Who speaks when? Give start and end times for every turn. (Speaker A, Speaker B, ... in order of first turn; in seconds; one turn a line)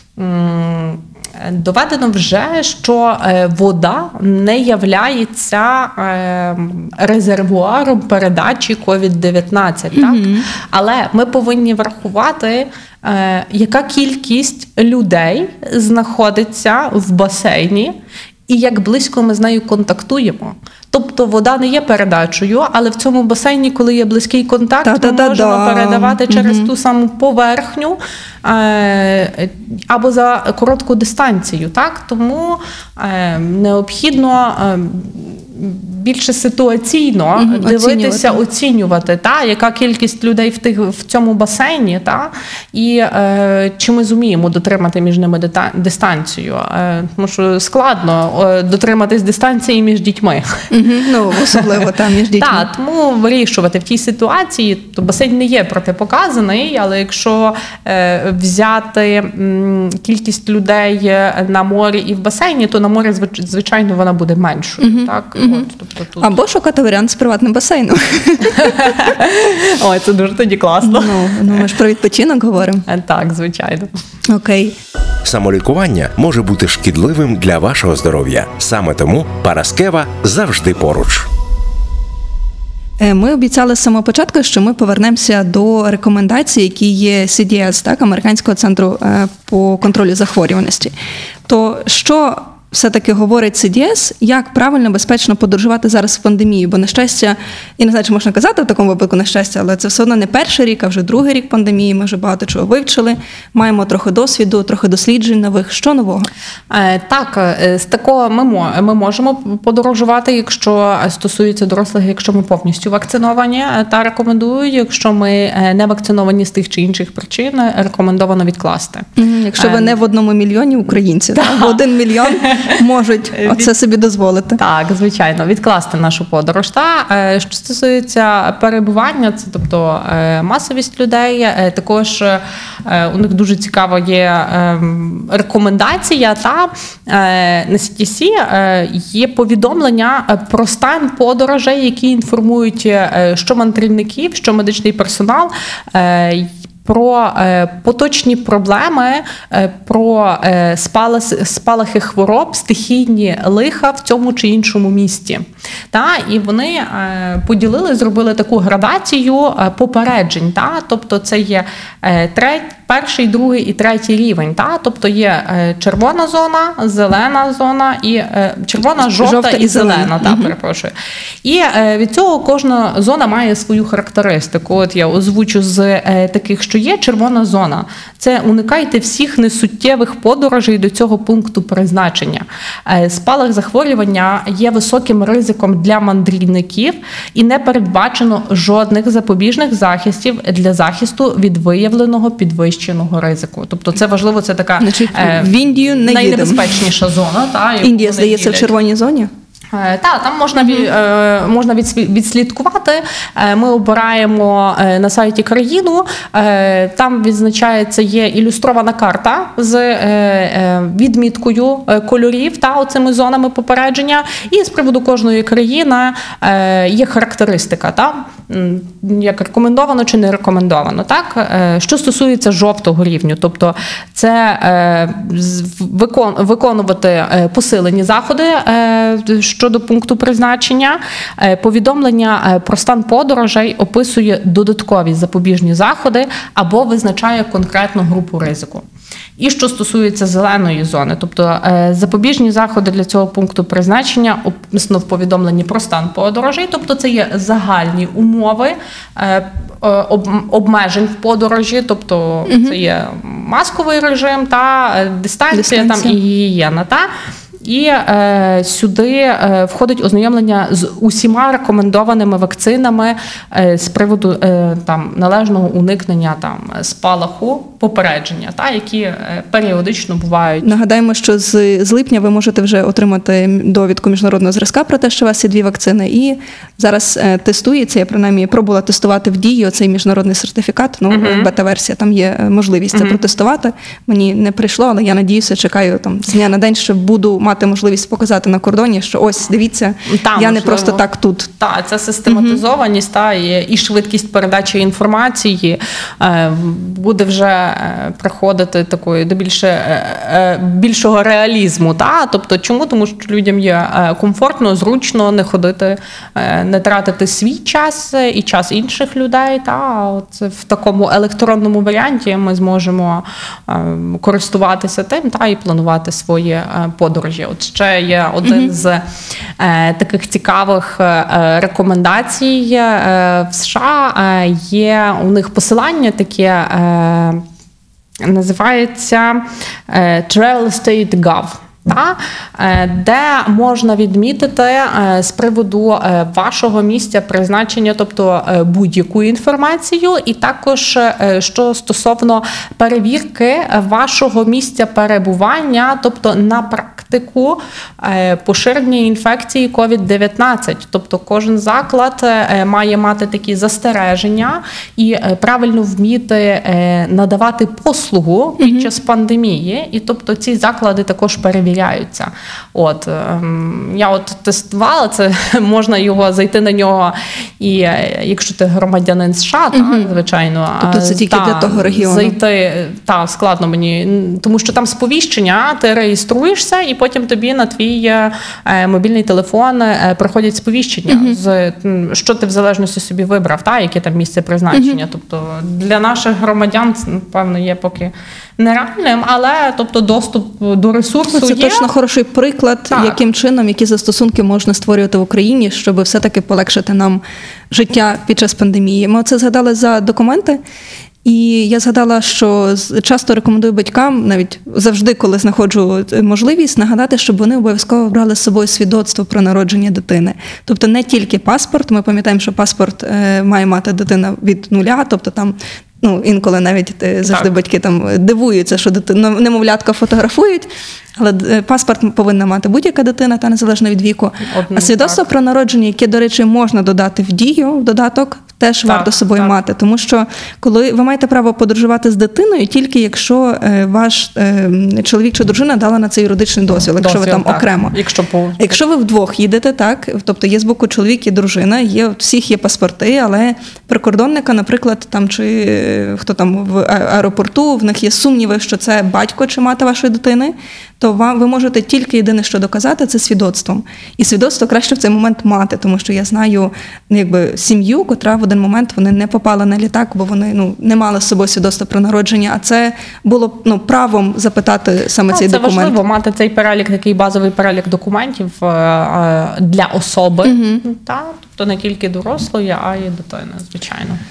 Speaker A: 0.2-17.9
Speaker B: 9.9-10.5
Speaker A: 18.5-50.7
Speaker B: 24.8-26.7
Speaker B: 37.4-38.4
Speaker B: 50.7-52.7
Speaker A: 51.5-51.8
Speaker A: 52.4-66.3
Speaker B: 64.8-65.7
Speaker B: 66.2-69.0
Speaker A: 68.6-71.7
Speaker B: 70.8-72.8
Speaker A: 72.9-73.9
Speaker B: 74.3-74.8
Speaker C: 75.2-81.3
Speaker B: 83.0-90.9
Speaker B: 91.5-106.3
Speaker A: 106.7-120.0
Speaker B: 119.2-124.6
Speaker A: 121.3-122.8
Speaker A: 123.4-123.7
Speaker A: 124.6-170.9
Speaker B: 169.2-170.5
Speaker A: 171.4-198.7
Speaker B: 194.8-196.8
Speaker B: 197.8-199.3
Speaker A: 199.7-238.8
Speaker B: 200.6-200.9
Speaker A: 239.4-257.1
Speaker B: 252.5-252.8
Speaker B: 255.5-256.1
Speaker A: 257.6-270.7
Speaker B: 270.6-291.5
Speaker A: 281.1-281.5
Speaker A: 282.9-283.2
Speaker A: 290.1-291.0
Speaker A: 291.6-319.0
Speaker B: 292.3-292.6
Speaker B: 318.4-318.7
Speaker A: 319.6-327.4
Speaker A: 328.2-391.9
Speaker B: 358.6-358.9
Speaker B: 369.7-370.1
Speaker B: 370.8-372.4
Speaker B: 381.1-381.4
Speaker B: 384.7-385.0
Speaker B: 391.3-400.6
Speaker A: 392.9-393.2
Speaker B: 401.2-438.0
Speaker A: 424.4-425.3
Speaker A: 428.9-429.6
Speaker A: 437.0-438.8
Speaker B: 438.6-466.0
Speaker A: 465.3-474.2
Speaker B: 470.4-470.8